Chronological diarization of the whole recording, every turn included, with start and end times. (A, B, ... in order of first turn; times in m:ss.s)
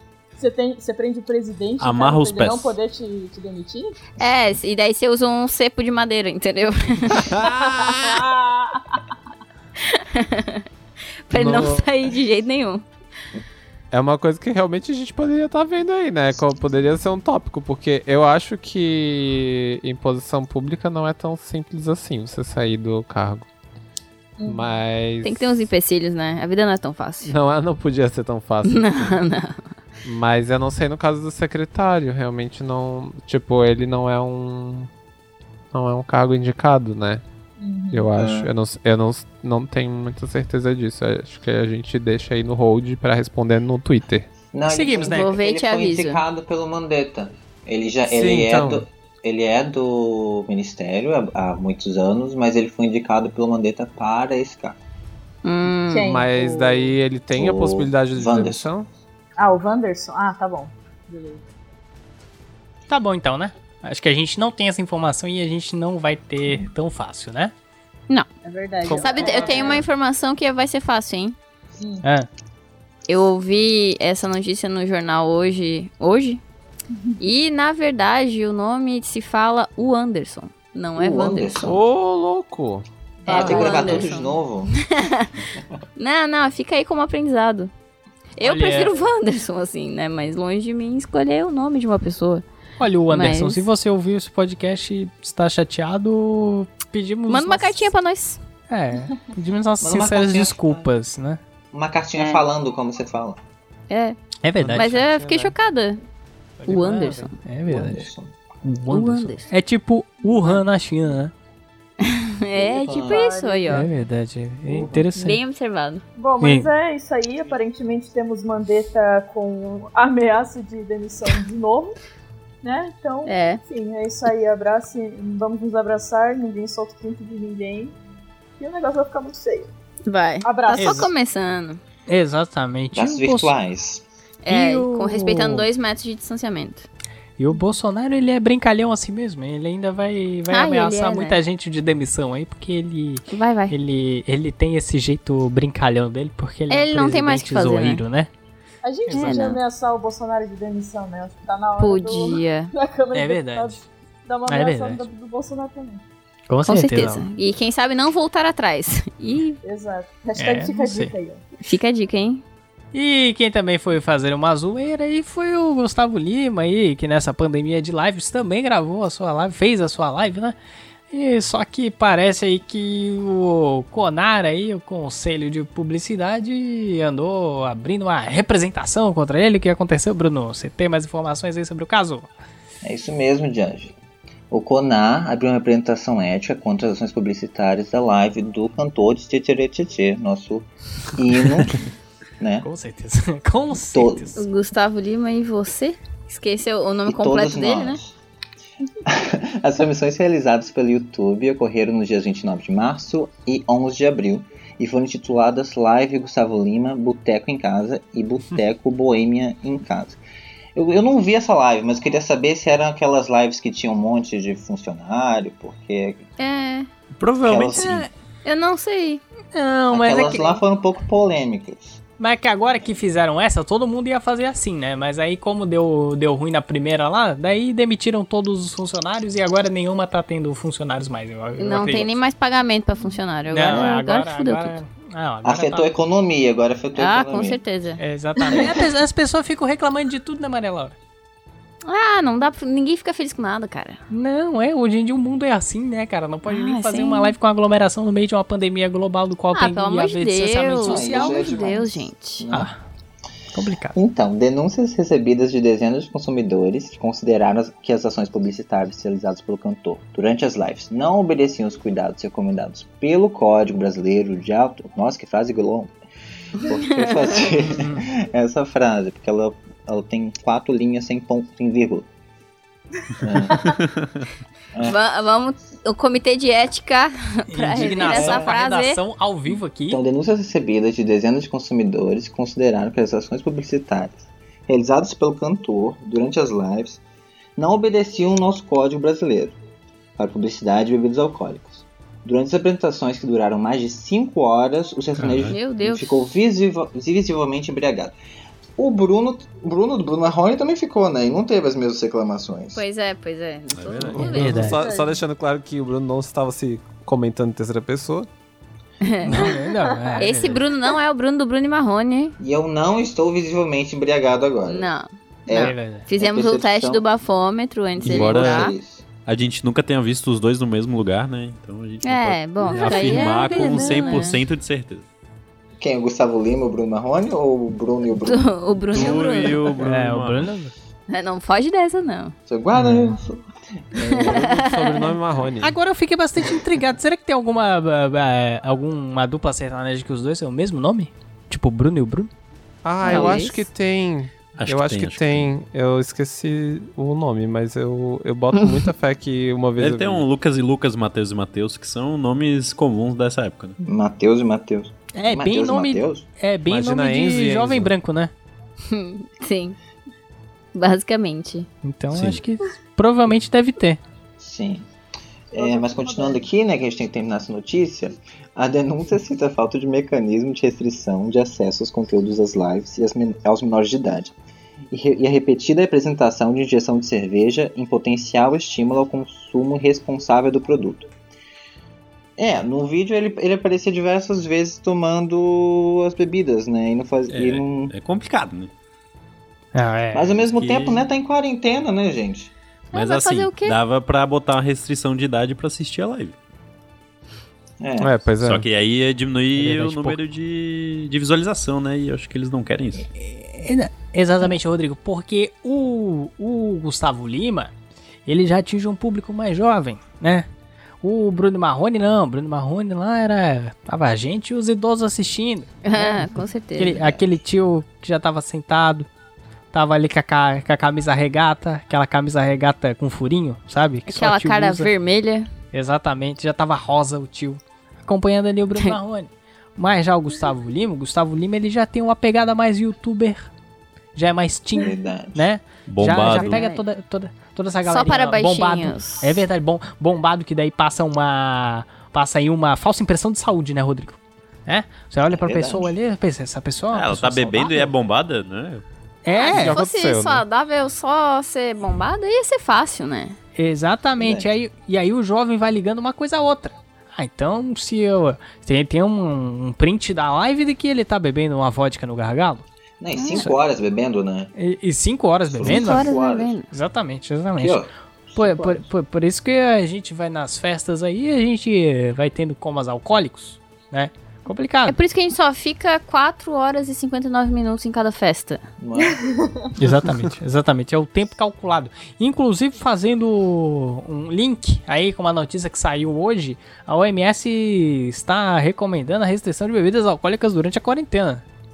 0:00.4-0:04.0 A
0:01.8-0:02.7 B
0:04.2-0:07.4 C
0:07.1-0:08.2 D
0:07.5-0:09.0 A
0:09.8-0:10.6 C
0:11.3-0:12.8 C
0:11.3-0:11.9 D
0:13.9-0:23.4 D
0:24.4-0:24.7 A
0:24.4-0:25.6 D
0:25.2-0:27.3 C
0:27.2-0:29.1 D
0:28.6-0:29.6 C
0:30.0-0:34.9 D
0:35.7-0:37.2 D
0:37.6-0:38.1 A
0:37.9-0:44.3 D
0:38.2-0:38.5 E
0:44.5-0:54.8 E
0:44.7-0:45.3 F
0:45.0-0:46.2 C
0:48.1-0:48.8 D
0:55.4-0:56.1 C
0:55.9-0:56.9 A
0:56.0-0:58.9 D
0:57.3-0:58.7 E
0:59.4-1:01.4 A
1:02.9-1:07.5 F
1:08.4-1:09.9 A
1:08.8-1:09.4 D
1:08.9-1:11.4 C
1:11.8-1:12.0 A
1:12.0-1:12.3 F
1:13.1-1:16.4 C
1:16.9-1:17.2 A
1:17.2-1:21.6 C
1:21.0-1:21.8 E
1:21.6-1:22.8 D
1:23.2-1:24.1 A
1:23.2-1:25.3 C
1:23.3-1:24.7 E
1:26.0-1:27.7 C
1:28.4-1:32.4 C
1:28.4-1:29.0 F
1:32.8-1:37.9 F
1:33.1-1:33.6 C
1:37.3-1:38.4 C
1:38.7-1:41.4 F
1:39.8-1:40.9 E
1:41.7-1:43.4 E
1:42.2-1:42.4 C
1:43.9-1:44.2 C
1:44.4-1:45.0 F
1:44.6-1:45.5 D
1:44.7-1:46.0 C
1:46.6-1:48.0 F
1:46.6-1:47.4 C
1:47.6-1:48.3 E
1:48.6-1:51.3 F
1:48.9-1:49.5 C
1:52.0-1:53.9 C
1:52.6-1:53.3 E
1:52.8-1:53.8 A
1:53.7-1:55.4 F
1:54.7-1:55.1 E
1:55.2-1:56.0 C
1:56.2-2:02.0 A
1:56.4-1:56.7 F
2:02.6-2:08.0 A
2:03.2-2:03.6 C
2:08.6-2:09.7 A
2:10.0-2:11.8 C
2:10.4-2:11.1 A
2:10.8-2:11.1 F
2:12.1-2:13.5 F
2:12.9-2:14.0 E
2:14.4-2:16.9 C
2:14.5-2:15.7 F
2:17.4-2:28.3 F
2:20.5-2:21.4 C
2:23.3-2:23.7 C
2:26.7-2:28.0 C
2:28.8-2:36.0 A
2:29.1-2:29.5 F
2:29.1-2:29.6 C
2:31.8-2:32.7 C
2:33.1-2:33.8 F
2:34.5-2:35.0 F
2:36.5-2:37.2 F
2:36.7-2:39.6 C
2:39.6-2:41.4 A
2:40.4-2:41.1 F
2:41.6-2:42.4 C
2:42.9-2:50.6 F
2:51.1-3:02.3 F
3:02.8-3:03.9 E
3:04.5-3:11.8 E
3:12.4-3:12.7 E
3:12.6-3:14.4 F
3:13.9-3:14.3 E
3:14.4-3:18.0 C
3:17.0-3:18.1 E
3:19.0-3:30.2 E
3:30.7-3:36.3 E
3:36.4-3:36.9 C
3:37.2-3:38.0 B
3:37.4-3:38.1 E
3:37.8-3:38.1 F
3:38.4-3:39.2 C
3:39.5-3:40.6 F
3:39.9-3:42.0 E
3:42.2-3:52.1 F
3:51.6-3:54.7 C
3:53.5-3:55.9 F
3:55.4-3:57.6 E
3:57.0-3:58.0 C
3:58.0-4:01.0 F
4:01.8-4:04.0 C
4:04.1-4:11.7 F
4:06.5-4:07.3 C
4:09.5-4:12.4 C
4:10.8-4:12.7 E
4:12.5-4:12.8 F
4:13.5-4:14.0 F
4:13.9-4:25.9 E
4:26.6-4:32.0 E
4:26.7-4:27.5 C
4:27.6-4:28.0 F
4:33.2-4:33.7 E
4:33.7-4:34.0 B
4:34.7-4:35.0 E
4:34.8-4:39.0 C
4:37.5-4:40.0 F
4:38.0-4:38.6 E
4:39.9-4:47.0 E
4:47.6-4:49.6 E
4:50.2-4:58.2 E
4:55.2-4:55.6 B
4:55.5-4:56.1 C
4:58.8-5:02.8 E
5:02.7-5:04.8 C
5:03.7-5:04.2 B
5:04.0-5:08.3 D
5:04.2-5:04.8 F
5:04.6-5:05.2 A
5:09.0-5:09.5 C
5:09.2-5:10.6 F
5:09.3-5:10.4 A
5:10.2-5:12.4 C
5:12.4-5:14.9 E
5:14.6-5:18.7 C
5:15.4-5:17.0 E
5:15.5-5:16.1 F
5:18.0-5:19.0 E
5:18.0-5:18.7 B
5:19.2-5:25.0 B
5:22.0-5:24.4 C
5:22.8-5:23.1 F
5:25.8-5:28.5 E
5:28.2-5:29.7 C
5:28.9-5:30.5 B
5:29.8-5:30.7 F
5:31.1-5:32.4 C
5:32.5-5:34.5 E
5:32.8-5:33.1 F
5:34.0-5:35.1 C
5:34.1-5:35.8 D
5:35.6-5:42.3 F
5:42.8-5:50.2 D
5:43.0-5:43.6 C
5:43.1-5:43.4 B
5:44.6-5:45.4 B
5:49.8-5:53.8 B
5:53.8-5:56.2 E
5:55.1-5:58.3 F
5:56.6-5:57.9 D
5:58.9-5:59.8 C
6:00.7-6:01.7 C
6:01.8-6:04.0 F
6:02.1-6:02.4 B
6:04.4-6:04.9 E
6:05.5-6:06.4 A
6:05.5-6:14.3 E
6:14.9-6:21.1 E
6:22.4-6:27.9 E
6:27.3-6:28.7 B
6:29.7-6:30.3 F
6:30.1-6:32.5 E
6:30.4-6:31.0 B
6:32.9-6:33.8 C
6:32.9-6:36.4 B
6:37.8-6:38.1 E
6:38.0-6:38.6 D
6:38.4-6:43.1 B
6:39.6-6:40.2 F
6:43.1-6:47.7 F
6:48.3-6:50.5 F
6:51.0-6:56.2 F
6:55.8-6:57.0 C
6:56.8-6:59.1 F
6:56.9-6:57.2 E
6:59.7-7:04.9 F
7:04.1-7:05.5 C
7:05.7-7:13.5 F
7:14.1-7:27.9 F
7:14.8-7:15.5 E
7:15.9-7:16.6 B
7:16.2-7:16.8 C
7:17.8-7:19.4 C
7:25.3-7:25.9 E
7:26.9-7:28.8 B
7:29.2-7:29.8 F
7:29.3-7:33.4 C
7:29.5-7:30.4 D
7:33.6-7:42.6 F
7:34.2-7:34.5 E
7:43.0-7:44.5 E
7:43.1-7:43.5 C
7:44.5-7:46.1 F
7:45.6-7:46.6 E
7:45.6-7:46.7 C
7:46.7-7:47.8 F
7:47.6-7:48.8 E
7:48.3-7:55.0 F
7:54.8-7:58.6 C
7:58.8-7:59.2 E
7:59.0-7:59.5 A
7:59.8-8:11.4 F